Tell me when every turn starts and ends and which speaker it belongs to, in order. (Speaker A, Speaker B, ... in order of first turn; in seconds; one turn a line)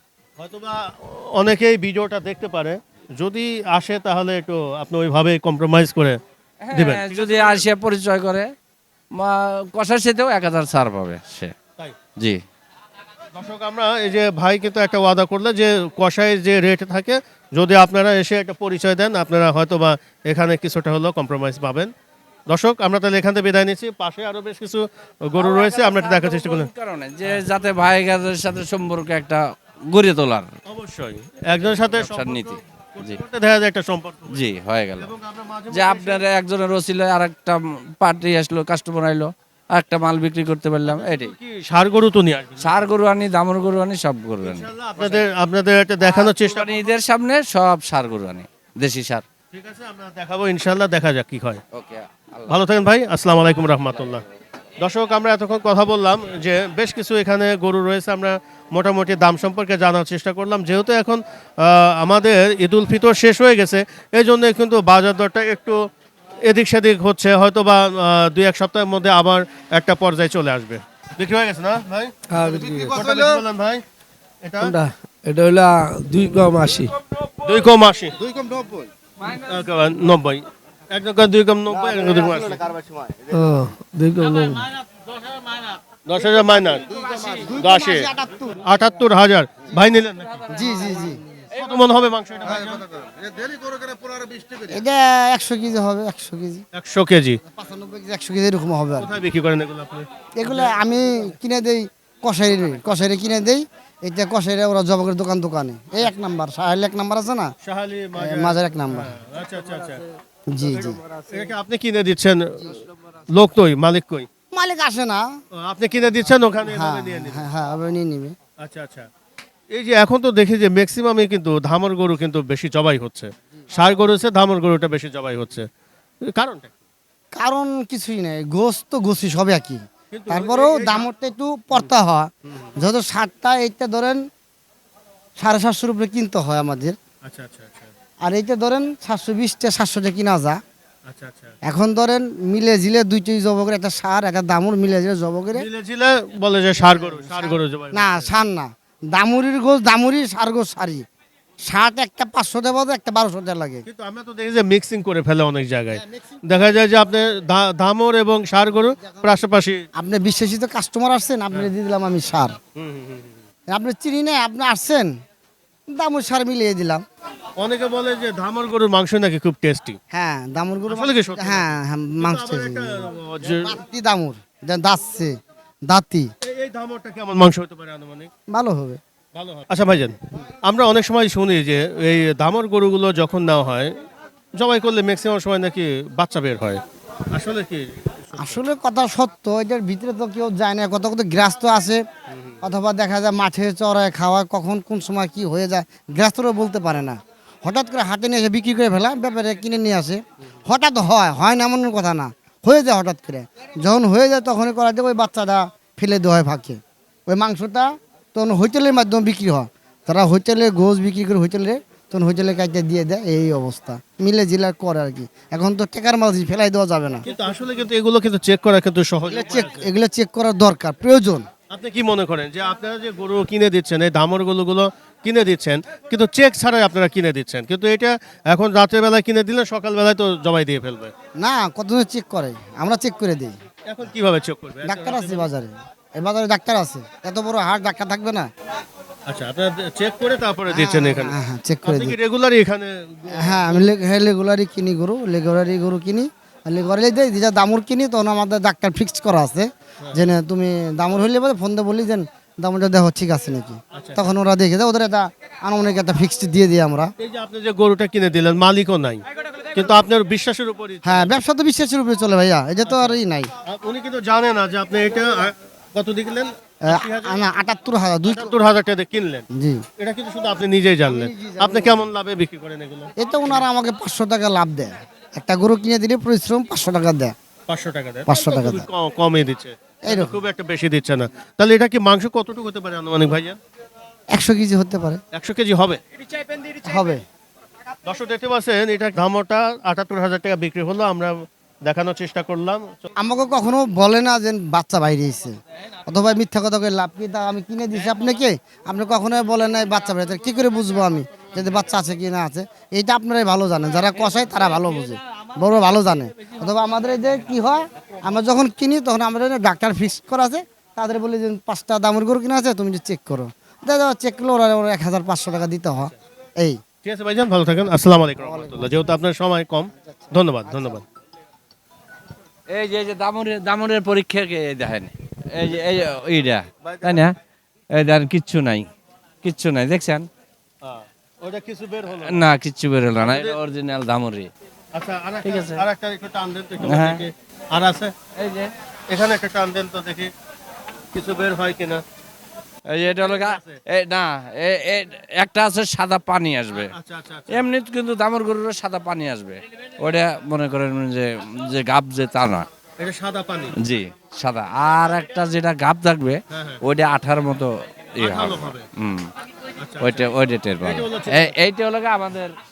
Speaker A: 0.4-6.2
Speaker B: 6.6-8.5
Speaker A: 6.7-7.7
Speaker B: 9.2-11.5
Speaker A: 13.3-21.9
Speaker A: 22.5-26.7
Speaker B: 25.4-30.5
Speaker A: 30.7-34.4
Speaker B: 31.9-33.2
Speaker B: 34.3-35.1
Speaker A: 35.0-36.2
Speaker B: 35.7-41.3
Speaker A: 40.9-42.9
Speaker B: 42.6-44.7
Speaker A: 44.4-46.9
Speaker B: 46.0-49.2
Speaker A: 49.5-51.6
Speaker B: 51.7-52.6
Speaker A: 52.5-54.2
Speaker A: 54.8-65.9
Speaker A: 66.4-72.2
Speaker C: 72.4-73.4
Speaker A: 72.9-73.8
Speaker A: 74.4-74.8
Speaker D: 74.8-76.8
Speaker A: 77.4-78.2
Speaker C: 78.2-78.9
Speaker B: 79.2-79.7
Speaker A: 79.4-82.6
Speaker C: 81.8-83.3
Speaker D: 83.4-84.7
Speaker A: 86.0-86.9
Speaker C: 86.9-87.6
Speaker E: 87.2-88.6
Speaker A: 87.6-90.5
Speaker B: 90.3-91.1
Speaker E: 90.5-91.2
Speaker A: 91.5-92.8
Speaker C: 92.4-94.8
Speaker E: 94.7-96.6
Speaker A: 96.7-97.4
Speaker E: 97.5-99.2
Speaker A: 99.0-100.8
Speaker E: 100.4-107.5
Speaker A: 107.6-110.0
Speaker E: 108.2-109.2
Speaker E: 110.5-111.0
Speaker A: 110.7-114.3
Speaker E: 114.5-115.3
Speaker A: 115.6-117.4
Speaker E: 116.6-118.4
Speaker A: 118.6-119.1
Speaker A: 119.7-125.7
Speaker A: 126.3-126.8
Speaker E: 127.3-134.2
Speaker A: 130.1-131.1
Speaker A: 132.5-132.7
Speaker E: 135.4-137.0
Speaker A: 137.2-137.9
Speaker E: 138.2-140.6
Speaker A: 141.1-141.6
Speaker E: 141.7-145.7
Speaker A: 145.5-148.3
Speaker E: 146.8-151.0
Speaker E: 151.7-153.8
Speaker A: 153.9-159.8
Speaker E: 160.0-162.6
Speaker A: 162.8-163.4
Speaker E: 163.7-165.1
Speaker E: 165.9-167.0
Speaker A: 167.6-170.0
Speaker E: 170.1-175.4
Speaker A: 170.9-173.7
Speaker E: 175.9-176.3
Speaker A: 176.4-178.3
Speaker E: 178.5-179.0
Speaker A: 179.3-183.9
Speaker A: 184.6-188.6
Speaker E: 188.4-192.0
Speaker A: 192.3-192.6
Speaker E: 192.6-217.3
Speaker A: 217.3-219.9
Speaker E: 219.3-221.5
Speaker A: 221.7-231.1
Speaker E: 231.4-233.6
Speaker A: 233.9-235.5
Speaker E: 234.8-238.5
Speaker A: 239.3-243.9
Speaker E: 240.7-242.2
Speaker E: 243.4-257.1
Speaker A: 253.9-254.3
Speaker A: 257.2-261.4
Speaker E: 261.0-263.5
Speaker A: 262.9-267.5
Speaker E: 266.9-268.5
Speaker A: 268.3-269.5
Speaker E: 269.6-269.8
Speaker A: 270.0-273.6
Speaker E: 271.1-272.1
Speaker E: 273.2-277.3
Speaker A: 277.7-283.6
Speaker E: 278.3-278.9
Speaker E: 280.1-280.4
Speaker E: 284.3-285.2
Speaker A: 285.3-286.0
Speaker E: 286.8-287.2
Speaker A: 288.1-293.1
Speaker E: 293.2-295.6
Speaker E: 296.1-316.8
Speaker A: 317.0-321.0
Speaker E: 318.4-319.1
Speaker E: 320.0-321.0
Speaker B: 322.7-327.4
Speaker A: 326.8-327.3
Speaker B: 327.9-328.9
Speaker B: 329.4-330.3
Speaker A: 330.8-332.4
Speaker B: 332.1-334.5
Speaker A: 333.2-333.6
Speaker A: 334.9-338.1
Speaker B: 335.4-335.8
Speaker B: 336.8-337.2
Speaker B: 338.4-338.7
Speaker A: 339.1-340.3
Speaker A: 341.1-342.0
Speaker B: 342.9-346.9
Speaker A: 343.2-343.8
Speaker A: 346.8-347.7
Speaker B: 347.5-352.7
Speaker A: 353.0-353.8
Speaker B: 353.8-359.3
Speaker A: 356.5-356.8
Speaker A: 358.2-358.9
Speaker A: 359.8-360.3
Speaker B: 360.0-362.5
Speaker A: 360.8-361.6